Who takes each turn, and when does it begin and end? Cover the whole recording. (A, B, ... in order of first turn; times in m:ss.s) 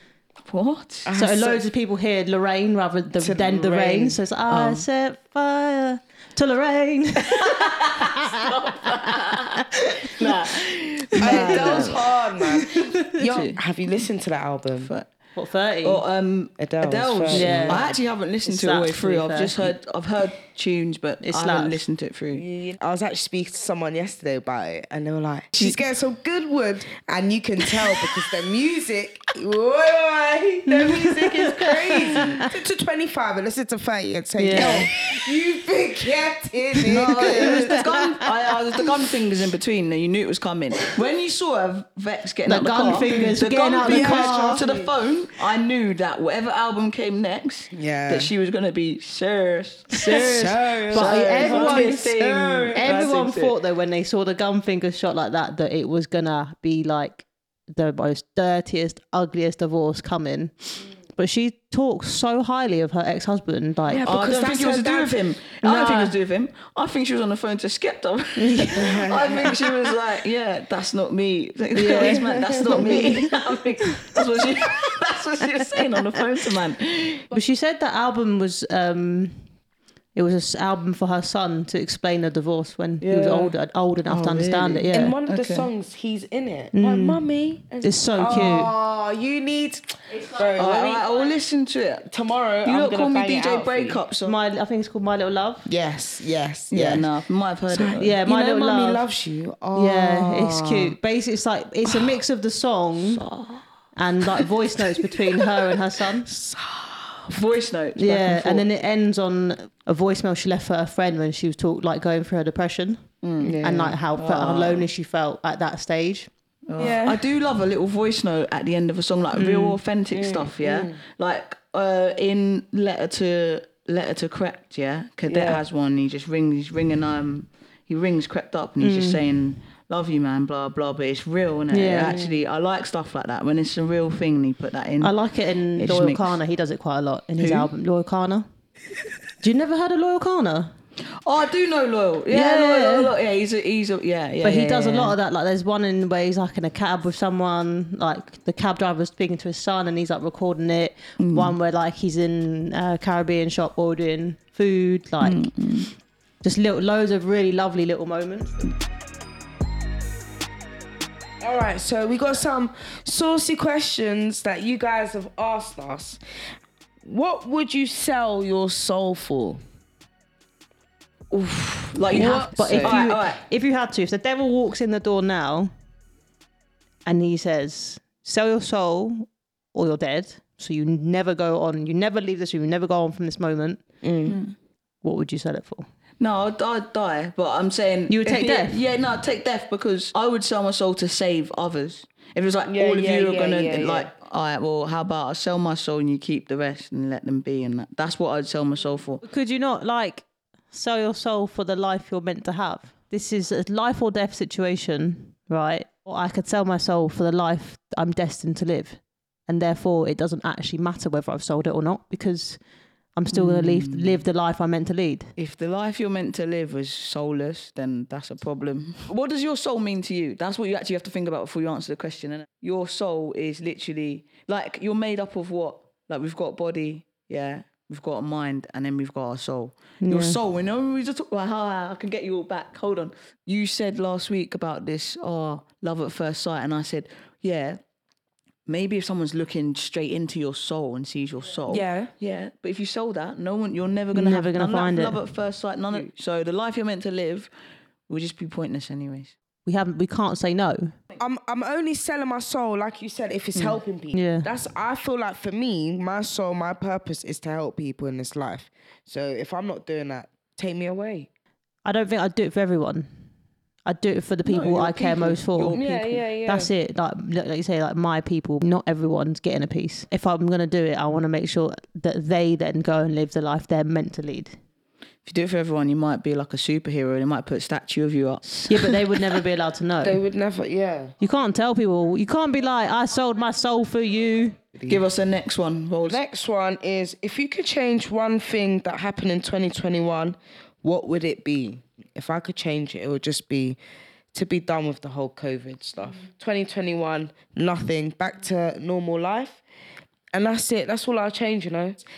0:00.5-0:01.2 A
0:01.1-0:01.6 B
0:01.1-0:10.6 C
0:03.2-0:04.2 B
0:04.5-0:04.8 A
0:07.5-0:12.0 A
0:11.1-0:11.9 C
0:11.2-0:14.9 B
0:12.6-0:13.2 C
0:13.2-0:13.6 A
0:14.8-0:15.1 A
0:15.4-0:16.0 C
0:15.8-0:22.4 A
0:16.6-0:17.9 B
0:17.3-0:17.9 C
0:18.5-0:19.7 C
0:21.2-0:21.8 C
0:22.4-0:37.9 B
0:31.1-0:32.2 C
0:34.4-0:34.9 C
0:34.6-0:34.8 A
0:36.8-0:53.5 A
0:37.2-0:37.8 C
0:42.5-0:44.6 C
0:43.8-0:44.9 B
0:47.7-0:48.3 B
0:50.0-0:52.1 C
0:50.1-0:52.9 B
0:52.8-1:04.4 C
1:03.9-1:05.2 B
1:04.0-1:17.3 A
1:05.6-1:06.2 C
1:08.4-1:09.0 C
1:08.8-1:09.7 B
1:11.7-1:13.3 C
1:12.0-1:13.2 B
1:17.3-1:19.5 C
1:20.1-1:25.2 C
1:23.0-1:23.5 B
1:23.1-1:23.5 A
1:24.1-1:25.7 A
1:24.9-1:31.1 B
1:26.7-1:27.2 C
1:27.8-1:28.7 C
1:30.5-1:32.1 A
1:32.1-1:34.0 B
1:32.6-1:34.4 A
1:34.2-1:35.7 C
1:35.6-1:37.1 B
1:36.7-1:38.2 A
1:37.7-1:41.0 B
1:38.0-1:39.0 C
1:39.7-1:43.2 C
1:43.1-1:43.6 A
1:44.0-1:46.3 C
1:46.3-1:47.2 B
1:47.3-1:48.6 A
1:48.0-1:53.0 C
1:53.2-1:53.6 A
1:53.4-1:54.0 B
1:53.6-1:56.3 C
1:54.2-1:54.8 A
1:56.7-2:15.2 A
1:56.8-1:57.2 B
1:59.4-1:59.8 C
2:00.1-2:01.0 B
2:05.3-2:05.6 B
2:08.8-2:09.2 C
2:11.7-2:12.2 C
2:12.1-2:12.3 B
2:15.0-2:18.5 C
2:15.8-2:16.4 A
2:17.4-2:17.7 A
2:19.4-2:20.7 C
2:21.2-2:25.2 A
2:22.3-2:23.1 C
2:24.4-2:35.5 C
2:31.2-2:31.5 A
2:35.2-2:35.9 A
2:36.4-2:38.6 C
2:41.4-2:46.2 B
2:47.0-2:49.6 B
2:51.3-2:53.4 A
2:52.1-2:53.1 B
2:52.2-2:55.7 C
2:57.1-3:03.8 C
3:04.0-3:04.4 B
3:04.3-3:04.5 A
3:05.0-3:05.9 C
3:06.2-3:19.2 A
3:08.1-3:08.8 C
3:12.7-3:14.1 B
3:19.2-3:32.6 C
3:33.2-3:35.3 C
3:33.3-3:34.2 A
3:35.4-3:57.8 A
3:50.0-3:50.4 C
3:58.7-4:07.5 A
4:01.7-4:02.1 B
4:04.1-4:05.2 C
4:08.1-4:09.3 A
4:09.6-4:10.9 C
4:11.2-4:21.3 B
4:13.6-4:14.5 C
4:21.8-4:23.1 C
4:23.9-4:34.6 C
4:24.5-4:26.1 A
4:25.7-4:26.7 B
4:35.3-4:39.0 A
4:38.7-4:40.2 C
4:40.0-4:41.1 B
4:41.2-4:44.6 C
4:44.9-4:46.2 A
4:46.1-4:53.8 B
4:54.3-4:59.6 B
5:00.3-5:02.0 B